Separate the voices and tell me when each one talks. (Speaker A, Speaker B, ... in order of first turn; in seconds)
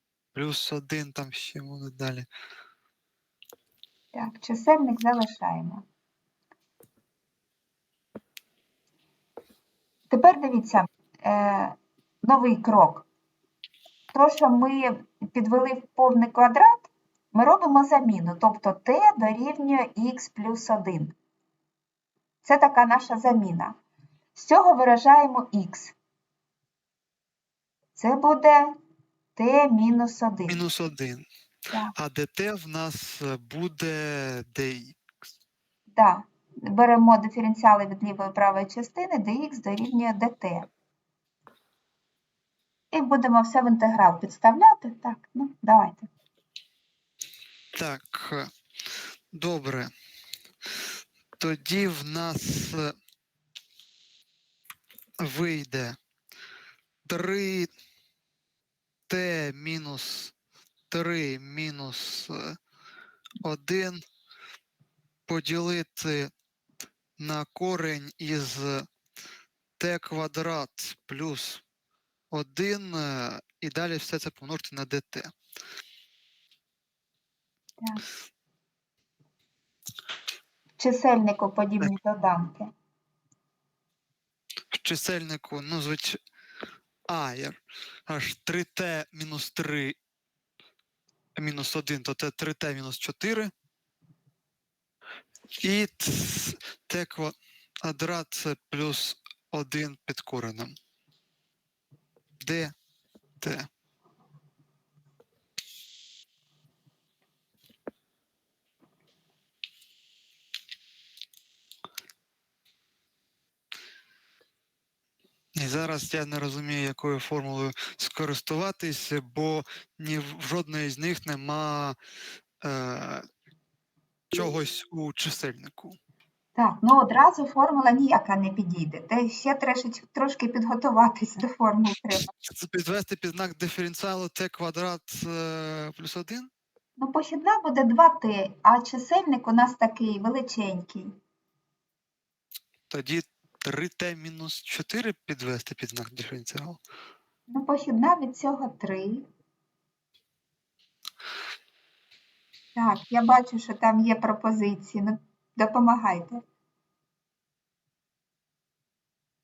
Speaker A: 0.3-2.3, 30.5-31.2, 31.9-35.0, 47.7-48.5, 49.3-49.9, 51.4-52.9, 55.2-56.0, 57.0-57.7, 59.1-60.3, 60.9-62.6, 63.4-64.0, 65.3-66.3, 67.2-68.9, 69.8-71.6, 72.3-75.3, 84.7-86.2, 87.1-90.0, 91.3-93.5, 95.6-100.8, 102.4-102.7, 103.4-103.7, 115.5-122.0, 122.6-123.2, 124.3-126.0, 132.1-136.5, 142.9-146.8
Speaker B: 4.1-5.8, 10.1-13.1, 14.1-21.1, 22.4-23.8, 24.3-25.9, 27.9-28.7, 29.4-30.6, 35.9-40.7, 42.9-46.1, 80.8-82.7, 126.5-132.3, 137.0-141.1, 147.5-149.2, 152.7-156.4